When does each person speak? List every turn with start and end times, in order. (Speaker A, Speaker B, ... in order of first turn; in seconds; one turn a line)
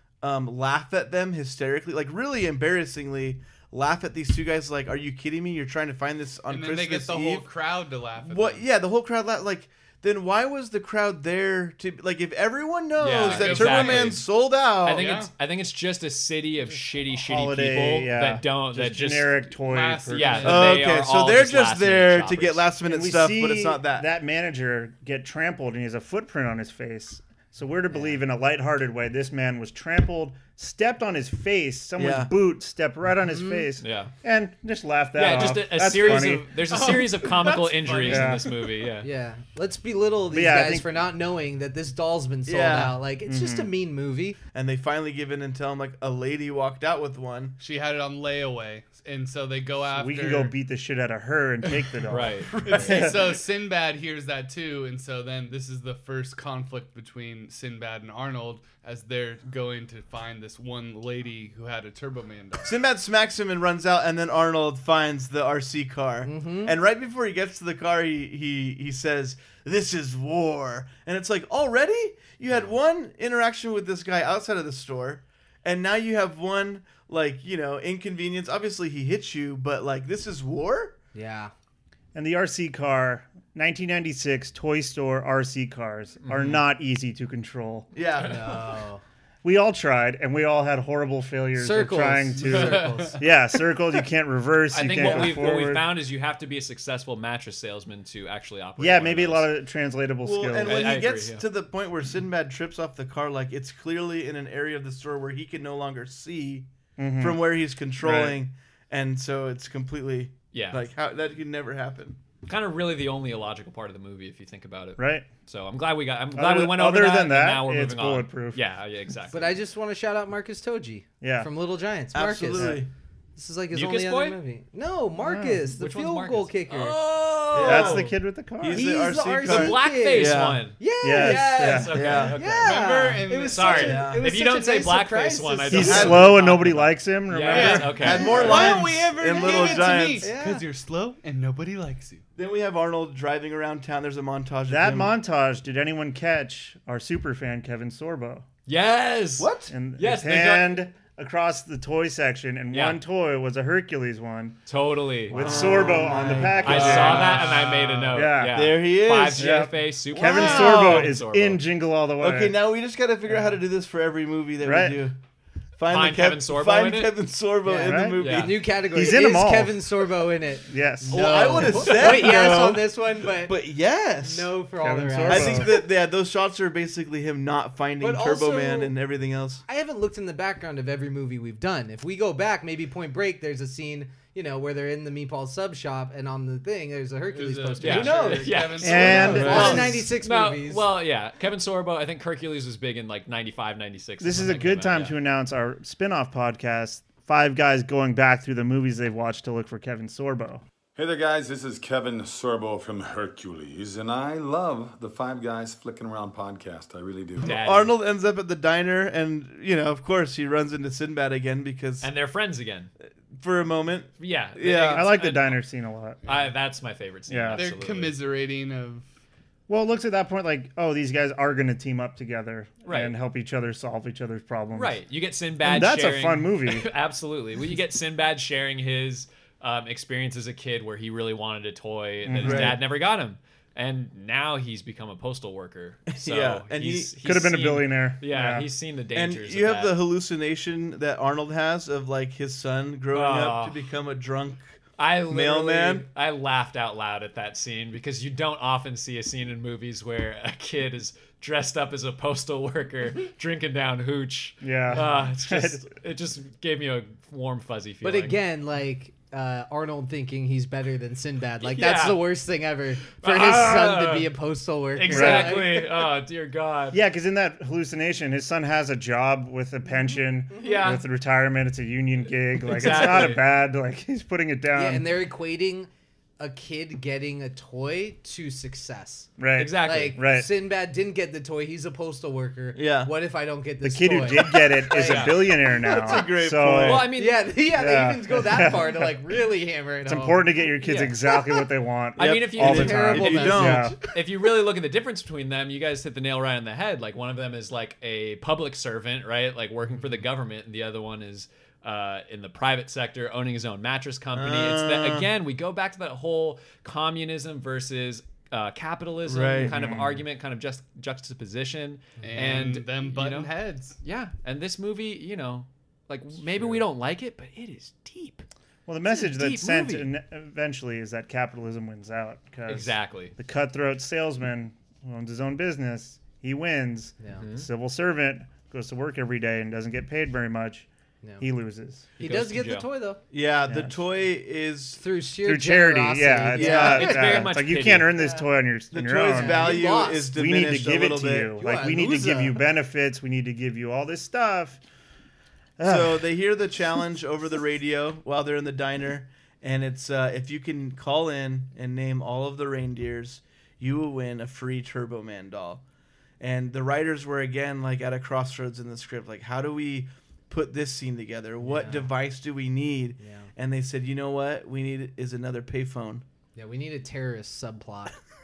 Speaker A: 0.2-7.5
Speaker B: 6.5-8.7
Speaker A: 8.2-15.1
Speaker C: 13.0-14.3
Speaker B: 13.2-14.2
Speaker C: 14.8-19.5
Speaker B: 15.0-15.3
Speaker D: 17.2-20.6
Speaker B: 19.6-20.8
Speaker C: 20.1-22.7
Speaker A: 20.4-24.1
Speaker D: 22.9-36.5
Speaker E: 27.9-28.2
Speaker A: 32.0-32.3
Speaker E: 33.2-33.7
Speaker C: 33.8-34.1
Speaker C: 35.2-39.1
Speaker B: 36.7-38.4
Speaker D: 38.0-38.5
Speaker E: 39.0-44.4
Speaker D: 40.3-40.9
Speaker A: 42.5-43.0
Speaker D: 43.2-43.7
Speaker A: 44.5-47.6
Speaker B: 47.6-50.5
Speaker D: 49.9-53.3
Speaker C: 52.1-52.5
Speaker A: 52.5-53.1
Speaker B: 52.6-62.8
Speaker A: 62.6-81.0
Speaker E: 66.2-66.8
Speaker E: 81.1-81.5
Speaker D: 82.1-87.9
Speaker C: 86.2-86.6
Speaker A: 87.9-88.5
Speaker E: 88.2-89.0
Speaker D: 89.4-95.9
Speaker E: 91.6-93.2
Speaker B: 92.5-93.2
Speaker C: 94.7-99.5
Speaker A: 95.0-95.4
Speaker D: 98.8-100.9
Speaker A: 100.2-106.7
Speaker C: 100.6-101.5
Speaker D: 107.0-107.4
Speaker A: 107.2-112.2
Speaker D: 108.0-108.4
Speaker C: 110.5-110.8
Speaker C: 112.5-119.6
Speaker D: 115.0-115.3
Speaker D: 116.3-118.6
Speaker E: 119.3-122.8
Speaker D: 121.2-121.5
Speaker A: 122.1-122.9
Speaker D: 122.6-122.8
Speaker E: 123.4-127.0
Speaker C: 123.7-124.4
Speaker D: 125.2-125.7
Speaker C: 125.7-128.0
Speaker A: 127.5-130.6
Speaker D: 127.5-128.9
Speaker E: 128.7-136.2
Speaker C: 129.4-132.9
Speaker D: 131.0-132.2
Speaker A: 131.9-132.4
Speaker B: 132.5-134.0
Speaker C: 133.5-138.7
Speaker A: 133.7-134.3
Speaker D: 135.7-138.7
Speaker A: 135.8-136.3
Speaker B: 137.5-142.2
Speaker A: 137.5-140.3
Speaker E: 138.2-138.8
Speaker E: 139.3-140.7
Speaker A: 142.4-145.1
Speaker D: 144.7-148.5
Speaker C: 148.7-150.8
Speaker A: 149.4-149.7
Speaker D: 149.7-154.6
Speaker C: 152.7-153.0
Speaker C: 154.7-155.9
Speaker D: 155.2-157.5
Speaker A: 155.3-157.9
Speaker E: 155.8-156.8
Speaker C: 156.6-161.6
Speaker B: 157.6-158.1
Speaker D: 158.1-158.8
Speaker A: 158.5-161.1
Speaker D: 159.3-162.6
Speaker A: 162.2-165.2
Speaker D: 164.6-165.0
Speaker A: 165.8-168.6
Speaker C: 165.9-167.2
Speaker E: 167.7-173.6
Speaker D: 167.8-168.2
Speaker C: 168.2-168.5
Speaker D: 168.9-169.8
Speaker D: 170.7-171.8
Speaker A: 171.1-174.5
Speaker E: 174.2-175.8
Speaker D: 174.8-175.7
Speaker A: 175.2-179.6
Speaker E: 178.0-178.9
Speaker E: 179.7-190.9
Speaker B: 187.3-189.8
Speaker C: 187.8-195.2
Speaker D: 188.8-190.0
Speaker A: 189.5-189.9
Speaker D: 194.2-200.6
Speaker F: 201.0-207.5
Speaker C: 207.4-207.9
Speaker A: 207.4-212.1
Speaker C: 212.0-212.9
Speaker A: 213.3-215.1
Speaker C: 214.2-215.6
Speaker D: 214.8-216.2
Speaker C: 216.2-218.2
Speaker D: 217.3-217.6
Speaker B: 217.6-219.1
Speaker D: 219.7-225.0
Speaker C: 222.9-223.1
Speaker C: 224.8-240.0
Speaker D: 225.6-226.9
Speaker D: 232.2-232.8
Speaker A: 232.4-232.8
Speaker A: 236.1-237.2
Speaker D: 237.2-238.7
Speaker A: 239.1-244.8
Speaker C: 243.1-243.8
Speaker C: 245.0-258.4
Speaker A: 245.3-246.1
Speaker D: 254.6-255.9
Speaker E: 258.0-266.1
Speaker C: 261.6-262.2
Speaker C: 263.1-264.3
Speaker C: 264.9-267.0
Speaker D: 265.1-265.6
Speaker D: 266.9-275.1
Speaker C: 270.6-271.0
Speaker C: 272.6-273.4
Speaker E: 274.8-279.3
Speaker D: 279.4-280.5
Speaker C: 279.6-280.2
Speaker E: 279.8-286.2
Speaker A: 282.8-283.1
Speaker D: 283.8-287.1
Speaker C: 285.0-285.5
Speaker A: 285.7-287.1
Speaker C: 286.8-287.5
Speaker E: 287.1-290.5
Speaker D: 287.8-289.2
Speaker D: 290.1-294.0
Speaker C: 290.8-291.1
Speaker C: 292.2-318.5
Speaker A: 292.2-294.0
Speaker E: 292.6-294.0
Speaker A: 304.4-305.3
Speaker A: 309.2-309.8
Speaker D: 309.6-310.2
Speaker B: 312.2-314.0
Speaker D: 318.9-330.9
Speaker C: 319.1-320.1
Speaker C: 322.7-323.3
Speaker C: 327.4-327.7
Speaker D: 331.4-332.1
Speaker C: 332.2-332.9
Speaker E: 332.2-333.2
Speaker A: 333.3-335.0
Speaker D: 333.7-334.0
Speaker E: 335.0-337.4
Speaker D: 335.4-344.8
Speaker A: 336.6-337.1
Speaker C: 336.8-338.1
Speaker E: 338.2-338.5
Speaker A: 338.9-341.6
Speaker E: 339.3-340.3
Speaker E: 341.6-342.6
Speaker D: 345.8-346.3
Speaker A: 345.8-355.8
Speaker A: 356.4-366.2
Speaker E: 361.6-362.1
Speaker E: 363.2-363.5
Speaker E: 366.6-368.1